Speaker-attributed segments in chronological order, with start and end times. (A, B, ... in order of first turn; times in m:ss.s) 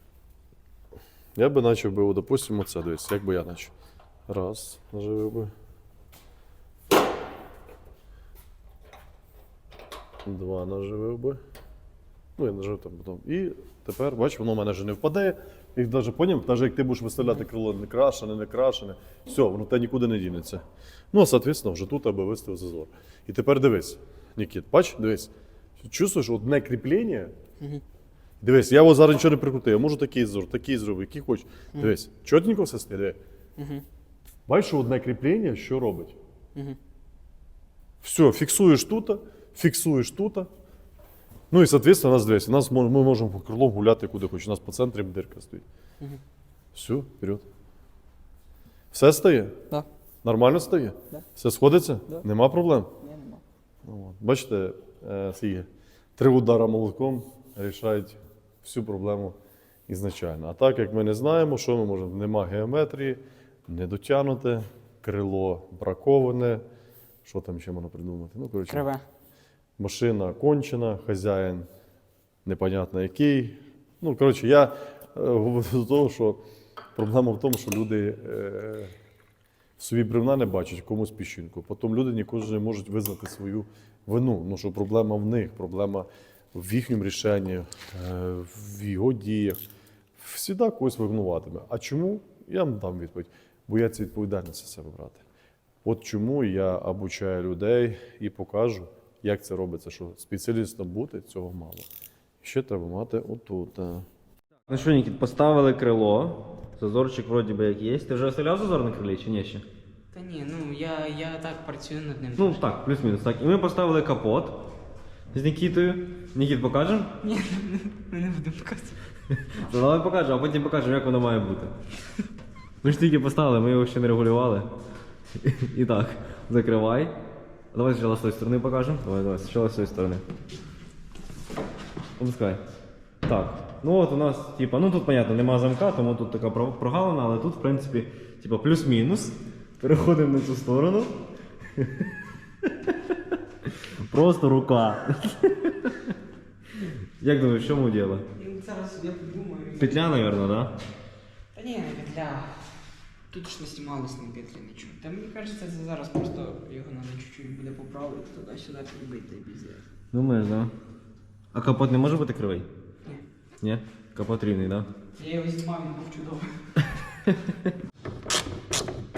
0:01.4-0:03.7 A
0:04.3-0:05.5 A
0:10.2-0:11.4 A
0:12.4-0:27.3 A
0:28.4-0:33.2 A
0:33.6-0:33.8 B
0:34.5-0:36.2 A
0:38.0-0:40.5 A
0:41.5-0:45.6 A
0:46.7-0:47.4 A
0:48.9-0:49.6 A
0:50.2-0:52.9 A
0:53.0-0:53.4 B
0:53.8-0:59.4 A
0:59.9-1:06.6 A
1:07.2-1:08.9 A
1:08.7-1:09.0 B
1:09.8-1:11.7 A
1:12.4-1:16.4 A
1:17.0-1:18.9 A
1:19.8-1:29.6 A
1:30.2-1:35.2 A
1:35.8-1:41.9 A
1:42.4-1:44.1 A
1:44.7-1:49.6 C
1:50.1-1:52.7 B
1:52.4-1:54.7 C
1:55.3-1:57.1 C
1:57.2-1:59.0 B
1:59.4-2:01.8 C
2:02.8-2:04.7 C
2:05.4-2:07.2 C
2:07.7-2:10.2 C
2:12.2-2:12.6 C
2:13.2-2:21.2 C
2:21.8-2:22.1 C
2:22.6-2:22.9 C
2:24.0-2:26.0 C
2:27.2-2:28.2 C
2:28.4-2:30.0 B
2:29.8-2:30.7 C
2:31.5-2:32.8 B
2:33.3-2:39.9 B
2:40.1-2:40.7 C
2:41.5-2:42.7 C
2:43.6-2:44.9 C
2:45.2-2:46.7 B